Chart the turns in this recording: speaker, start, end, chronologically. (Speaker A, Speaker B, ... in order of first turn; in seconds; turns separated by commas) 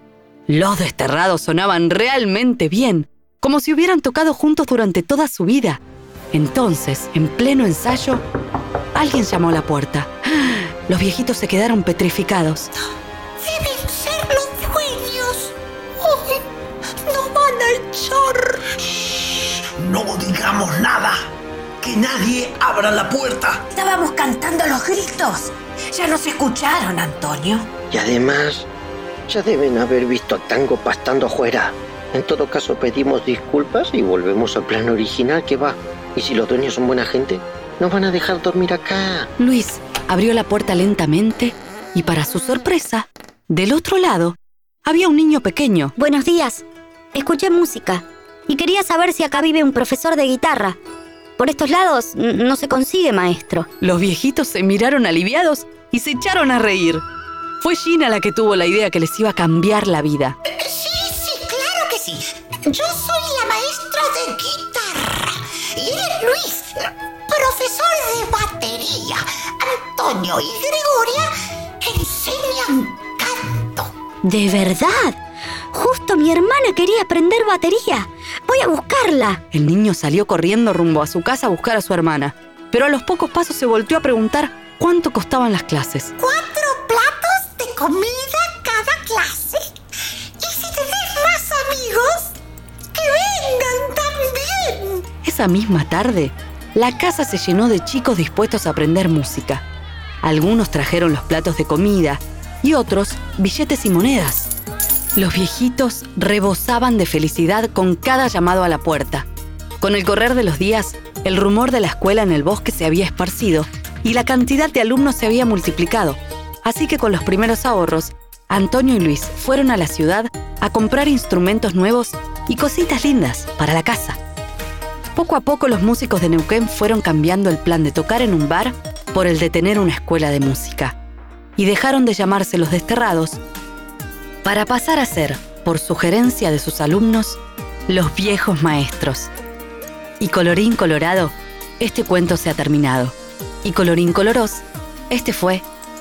Speaker A: 0.5-5.8, Speaker A: 6.3-8.2, Speaker A: 8.9-12.7, Speaker B: 13.4-16.4, Speaker B: 17.1-18.9, Speaker C: 19.8-21.2, Speaker C: 21.8-23.6, Speaker D: 23.7-27.7, Speaker E: 27.9-28.7, Speaker E: 29.3-39.3, Speaker A: 39.4-45.9, Speaker F: 46.0-50.8, Speaker F: 51.4-53.7, Speaker A: 53.8-57.0, Speaker A: 57.6-60.4, Speaker B: 60.5-71.3, Speaker B: 71.8-73.9, Speaker F: 74.2-75.2, Speaker F: 75.7-79.4, Speaker A: 79.5-86.1, Speaker B: 86.2-89.7, Speaker B: 90.4-92.3, Speaker B: 92.9-95.0, Speaker A: 95.2-99.6, Speaker A: 100.2-104.5, Speaker A: 105.2-109.3, Speaker A: 109.8-124.2, Speaker A: 125.1-130.9, Speaker A: 131.6-133.4, Speaker A: 134.4-139.3, Speaker A: 140.2-145.6